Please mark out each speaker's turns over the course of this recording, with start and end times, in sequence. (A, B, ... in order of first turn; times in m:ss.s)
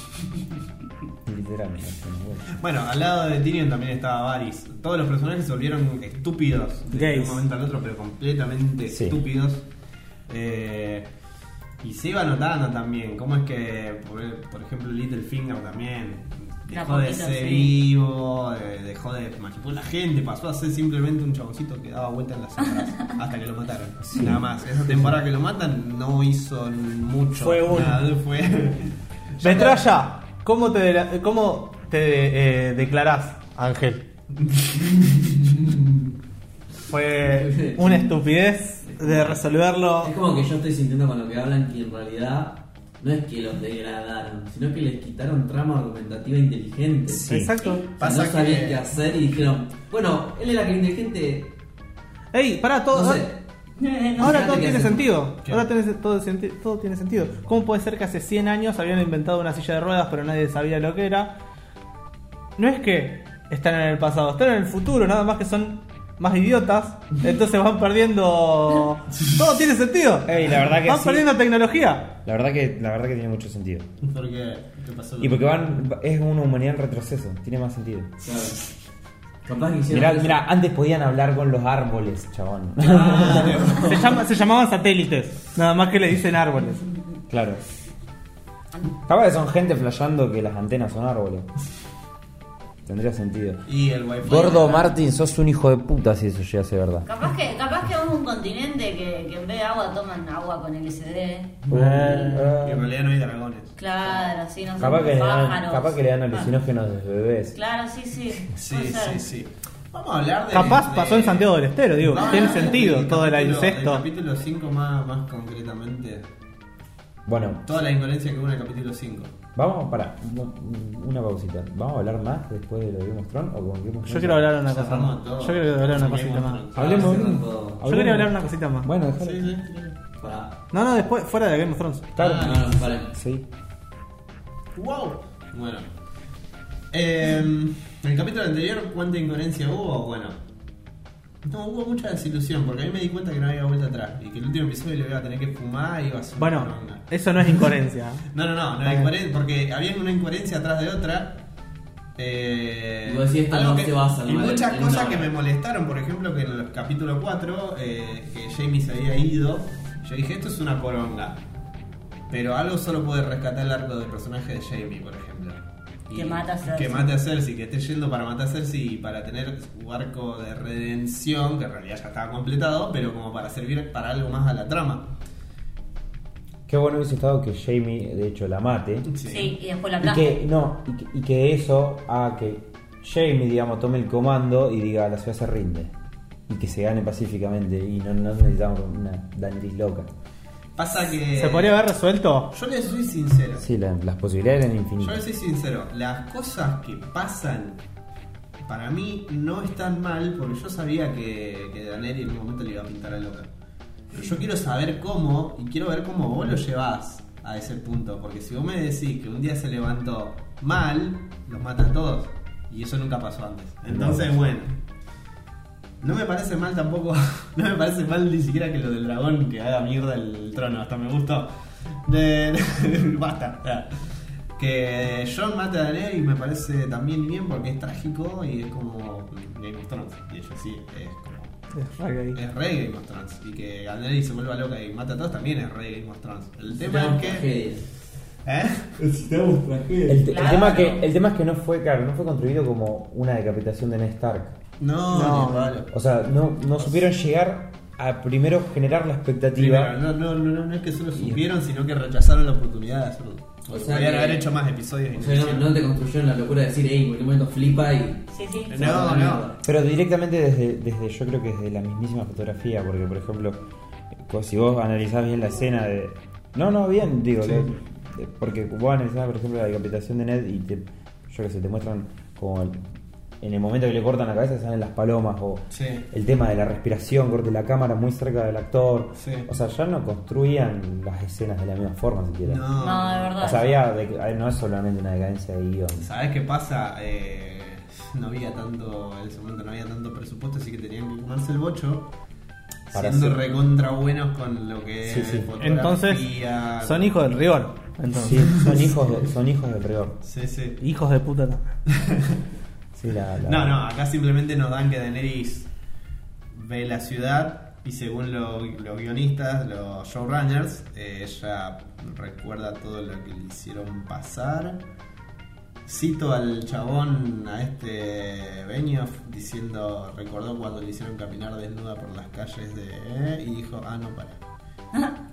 0:01.2-0:02.5 A
0:02.5-0:09.6 B
0:06.9-0:07.4 C
0:08.9-0:09.2 A
0:10.3-0:11.1 B
0:11.8-0:29.8 B
0:16.7-0:17.8 D
0:24.0-0:25.2 A
0:27.3-0:28.0 C
0:29.4-0:34.0 C
0:34.5-0:35.2 B
0:35.4-0:36.0 E
0:36.9-0:40.1 C
0:37.2-0:38.2 E
0:38.9-0:39.4 E
0:40.0-0:47.3 E
0:47.1-0:47.5 A
0:47.3-0:47.8 C
0:48.0-0:48.8 B
0:48.0-0:51.5 E
0:52.3-0:53.2 C
0:52.9-0:53.4 E
0:53.8-0:54.5 D
0:54.1-0:55.1 E
0:54.2-1:01.3 C
1:02.6-1:12.1 C
1:10.2-1:11.3 A
1:12.2-1:13.9 A
1:14.0-1:15.6 B
1:15.2-1:18.1 A
1:18.2-1:18.6 E
1:19.4-1:20.4 E
1:19.9-1:23.7 A
1:22.8-1:24.2 B
1:23.8-1:26.8 C
1:27.3-1:27.6 A
1:29.1-1:31.5 A
1:32.8-1:33.6 A
1:33.6-1:35.0 B
1:34.2-1:37.1 A
1:37.0-1:41.6 D
1:41.7-1:42.5 C
1:41.7-1:42.9 A
1:42.6-1:44.3 B
1:43.8-1:46.5 D
1:44.8-1:47.6 A
1:47.5-1:49.2 D
1:48.5-1:51.5 B
1:50.5-1:54.0 C
1:52.0-1:56.2 B
1:52.1-1:52.7 D
1:57.2-1:57.6 A
1:57.6-1:59.3 B
1:59.5-2:04.6 A
2:04.0-2:06.6 C
2:04.6-2:07.2 B
2:06.7-2:07.8 E
2:06.7-2:09.6 A
2:07.8-2:08.9 C
2:09.2-2:10.0 B
2:10.2-2:10.5 E
2:10.7-2:12.1 C
2:12.2-2:13.4 A
2:12.2-2:12.7 B
2:12.2-2:13.1 E
2:14.8-2:15.9 B
2:16.9-2:20.4 B
2:21.4-2:27.0 B
2:26.4-2:28.2 C
2:28.3-2:31.4 B
2:28.8-2:29.1 C
2:32.2-2:41.4 B
2:33.0-2:35.3 E
2:42.3-2:55.1 B
2:46.1-2:47.1 D
2:56.7-2:59.1 A
2:59.1-2:59.5 B
2:59.2-3:00.4 D
3:00.0-3:05.9 A
3:06.5-3:10.1 A
3:10.8-3:11.8 B
3:11.3-3:12.5 C
3:12.5-3:13.6 B
3:13.6-3:15.2 A
3:15.0-3:17.8 B
3:18.6-3:23.5 B
3:24.1-3:34.8 B
3:33.9-3:34.4 A
3:36.0-3:41.5 B
3:42.0-3:51.5 B
3:51.7-3:52.4 C
3:52.3-3:57.5 B
3:56.7-3:57.8 E
3:58.4-4:00.2 B
4:00.1-4:04.6 A
4:00.2-4:01.0 D
4:04.8-4:05.9 B
4:05.1-4:05.7 C
4:05.9-4:09.9 A
4:09.6-4:15.6 B
4:11.1-4:11.4 A
4:13.7-4:14.5 E
4:15.1-4:19.6 E
4:18.3-4:18.9 D
4:18.7-4:19.5 B
4:19.6-4:23.6 A
4:24.2-4:32.8 A
4:33.4-4:42.6 A
4:35.7-4:36.0 B
4:39.2-4:39.5 B
4:42.4-4:43.6 B
4:42.8-4:43.7 D
4:43.4-4:46.1 A
4:46.0-4:52.1 B
4:52.9-4:57.1 B
4:52.9-4:53.4 A
4:55.0-4:55.5 A
4:55.6-4:56.3 C
4:56.8-4:58.5 C
4:58.1-5:00.2 A
4:58.4-4:58.9 B
5:00.2-5:00.8 B
5:00.8-5:01.7 C
5:01.9-5:02.4 B
5:02.9-5:03.8 A
5:03.4-5:05.7 B
5:06.5-5:14.8 B
5:15.8-5:24.4 B